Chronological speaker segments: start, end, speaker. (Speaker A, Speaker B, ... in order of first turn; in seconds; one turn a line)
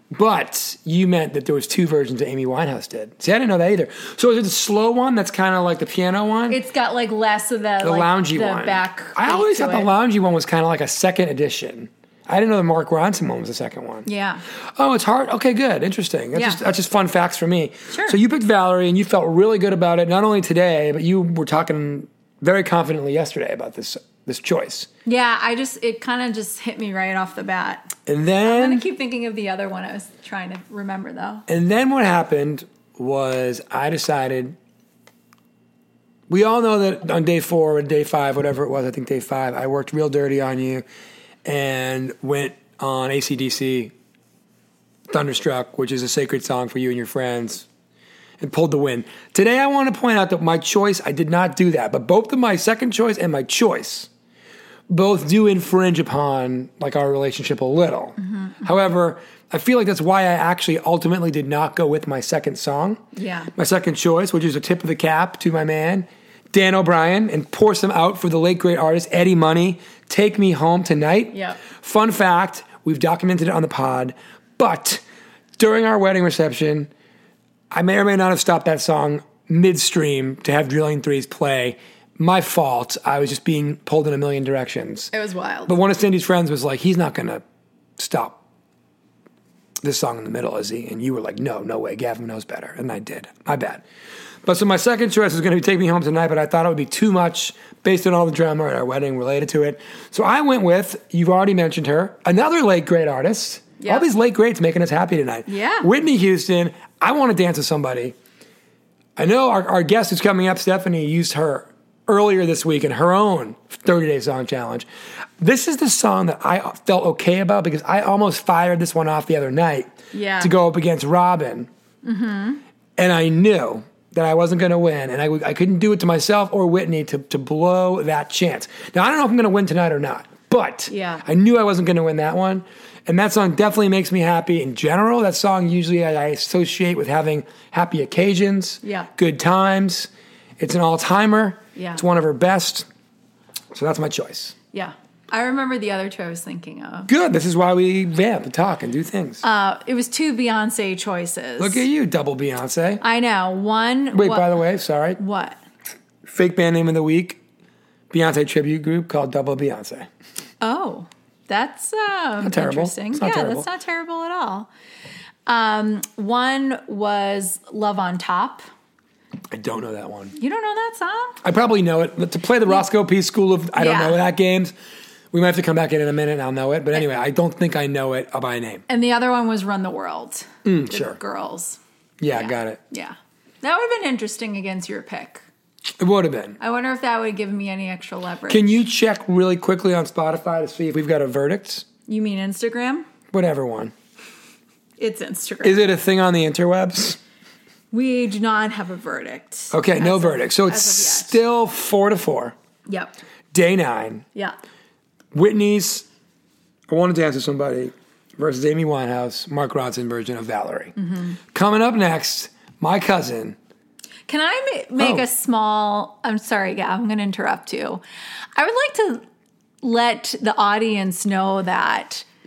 Speaker A: 0.1-6.6
Speaker B: 6.5-9.9
Speaker A: 7.8-14.1
Speaker B: 14.1-14.4
Speaker A: 14.8-24.9
Speaker B: 16.3-16.6
Speaker B: 17.9-18.1
Speaker B: 25.1-27.9
Speaker A: 28.1-28.9
Speaker B: 28.4-31.4
Speaker A: 31.5-34.5
Speaker A: 36.3-40.8
Speaker A: 41.4-43.9
Speaker A: 45.1-47.6
Speaker A: 48.4-54.1
Speaker A: 54.9-63.0
Speaker B: 58.2-58.7
Speaker B: 63.1-63.5
Speaker A: 63.5-75.0
Speaker B: 71.3-71.6
Speaker A: 75.6-76.9
Speaker A: 77.7-85.1
Speaker B: 85.1-85.8
Speaker A: 85.7-87.4
Speaker A: 88.0-88.4
Speaker A: 89.8-93.8
Speaker A: 94.4-108.2
Speaker B: 103.8-104.0
Speaker B: 105.5-105.9
Speaker A: 109.2-114.9
Speaker A: 115.4-121.7
Speaker B: 120.1-120.5
Speaker B: 122.0-122.6
Speaker A: 123.0-142.9
Speaker B: 130.9-131.2
Speaker B: 138.8-139.1
Speaker B: 141.8-142.0
Speaker A: 143.7-144.5
Speaker B: 144.7-147.1
Speaker A: 147.1-149.4
Speaker B: 149.4-151.8
Speaker A: 151.6-153.0
Speaker B: 153.0-154.5
Speaker A: 154.1-155.2
Speaker B: 155.2-155.6
Speaker A: 156.3-157.4
Speaker A: 158.1-160.1
Speaker B: 160.6-164.7
Speaker A: 162.4-163.7
Speaker B: 165.4-168.7
Speaker A: 169.5-170.3
Speaker B: 170.4-171.4
Speaker A: 171.4-174.7
Speaker B: 173.8-174.2
Speaker A: 175.3-178.8
Speaker B: 178.9-181.8
Speaker A: 180.6-181.2
Speaker A: 182.2-182.8
Speaker B: 182.3-185.4
Speaker A: 186.0-186.6
Speaker B: 186.6-188.8
Speaker A: 188.5-191.8
Speaker B: 192.1-193.1
Speaker A: 193.3-193.9
Speaker B: 195.0-195.8
Speaker A: 195.6-197.2
Speaker B: 197.9-201.4
Speaker A: 199.7-202.5
Speaker B: 202.9-203.2
Speaker A: 203.5-204.2
Speaker A: 205.3-206.0
Speaker A: 206.9-210.9
Speaker B: 211.0-211.4
Speaker A: 211.5-213.6
Speaker B: 214.3-218.0
Speaker A: 215.0-215.3
Speaker B: 218.6-219.2
Speaker B: 219.8-222.2